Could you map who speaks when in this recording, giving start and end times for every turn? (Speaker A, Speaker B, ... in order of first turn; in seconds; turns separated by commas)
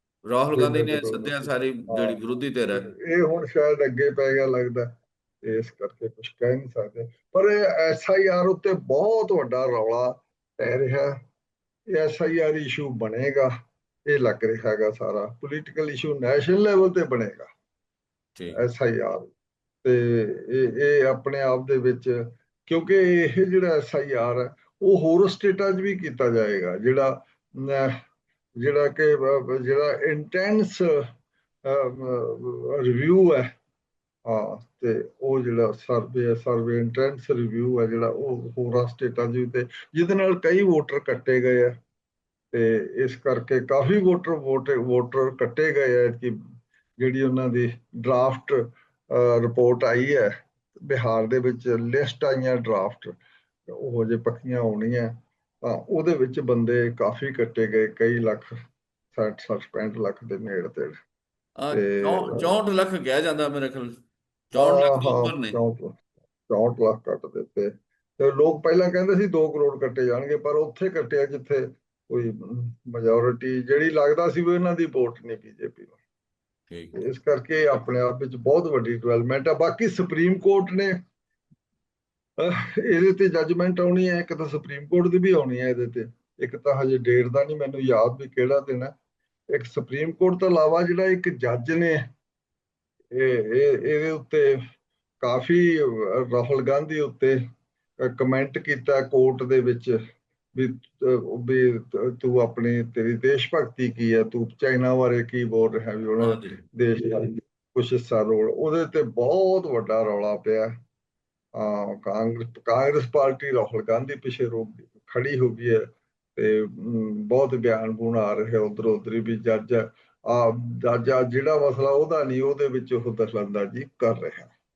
Speaker A: 0.3-2.9, Speaker B: 0.5-2.2, Speaker B: 2.7-4.9, Speaker B: 5.4-11.1, Speaker B: 11.9-13.5, Speaker B: 14.1-17.5, Speaker B: 18.5-19.2, Speaker B: 19.8-27.9, Speaker B: 28.6-31.0, Speaker B: 31.6-33.5, Speaker B: 34.2-41.7, Speaker B: 42.5-46.3, Speaker B: 47.0-50.3, Speaker B: 50.8-53.1, Speaker B: 53.7-58.5, Speaker B: 59.1-60.9, Speaker A: 61.6-64.0, Speaker B: 61.7-62.5, Speaker A: 64.5-65.6, Speaker B: 64.5-66.0, Speaker B: 66.5-76.0, Speaker A: 76.7-77.0, Speaker B: 76.9-80.9, Speaker B: 82.4-88.9, Speaker B: 89.5-92.0, Speaker B: 93.1-94.6, Speaker B: 95.2-97.4, Speaker B: 98.0-100.0, Speaker B: 100.5-110.7, Speaker A: 106.2-106.6, Speaker B: 111.5-115.8, Speaker B: 116.3-124.5